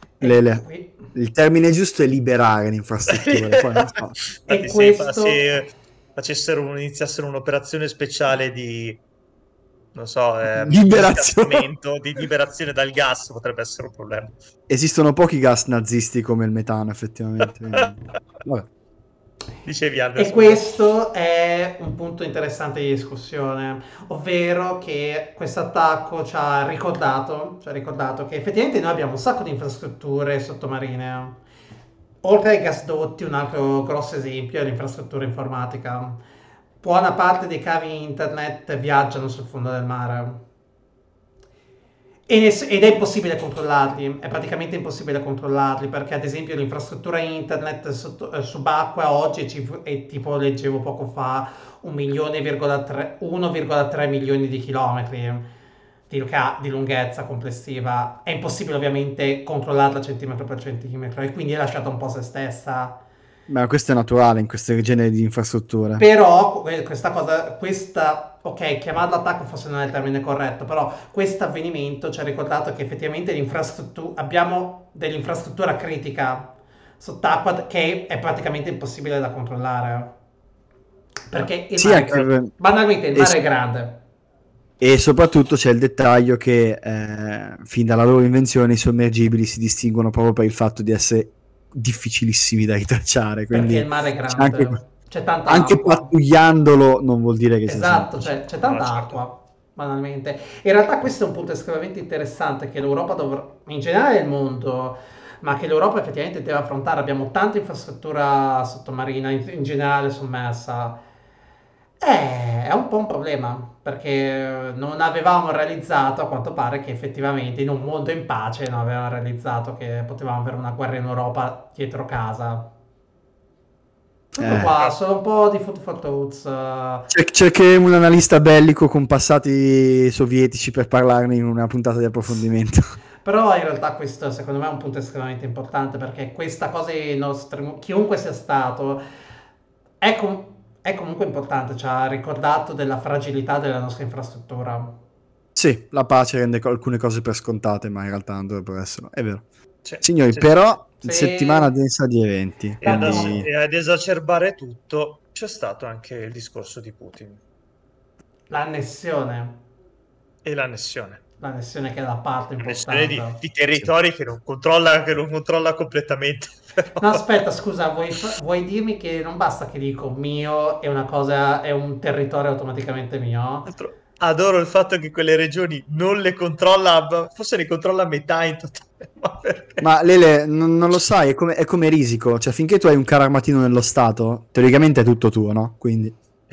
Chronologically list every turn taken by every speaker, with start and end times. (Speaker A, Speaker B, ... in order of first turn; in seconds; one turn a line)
Speaker A: 0.2-1.0
Speaker B: 0.2-4.1
Speaker C: 3.1-9.0
Speaker A: 4.5-5.4
Speaker C: 9.9-14.4
Speaker B: 10.5-11.7
Speaker B: 14.7-18.7
Speaker C: 19.6-20.6
Speaker A: 20.1-31.4
Speaker A: 32.2-36.2
Speaker A: 36.8-40.4
Speaker A: 42.3-55.5
Speaker A: 56.1-63.0
Speaker B: 63.5-66.0
Speaker A: 66.0-80.1
Speaker A: 81.3-84.0
Speaker B: 81.8-82.5
Speaker B: 84.8-94.8
Speaker A: 93.5-96.1
Speaker B: 95.5-98.3
Speaker A: 97.7-111.0
Speaker C: 98.6-99.2
Speaker A: 112.0-122.7
Speaker A: 124.3-127.1
Speaker B: 124.4-124.7
Speaker B: 127.1-132.9
Speaker A: 133.2-139.0
Speaker A: 140.0-144.9
Speaker B: 145.5-149.4
Speaker C: 149.8-150.6
Speaker B: 150.0-153.5
Speaker A: 151.0-151.7
Speaker C: 152.8-157.4
Speaker A: 152.8-153.4
Speaker A: 158.5-159.6
Speaker C: 160.4-161.2
Speaker A: 161.4-163.4
Speaker C: 162.6-167.2
Speaker A: 167.0-173.7
Speaker C: 173.7-179.9
Speaker B: 179.8-186.2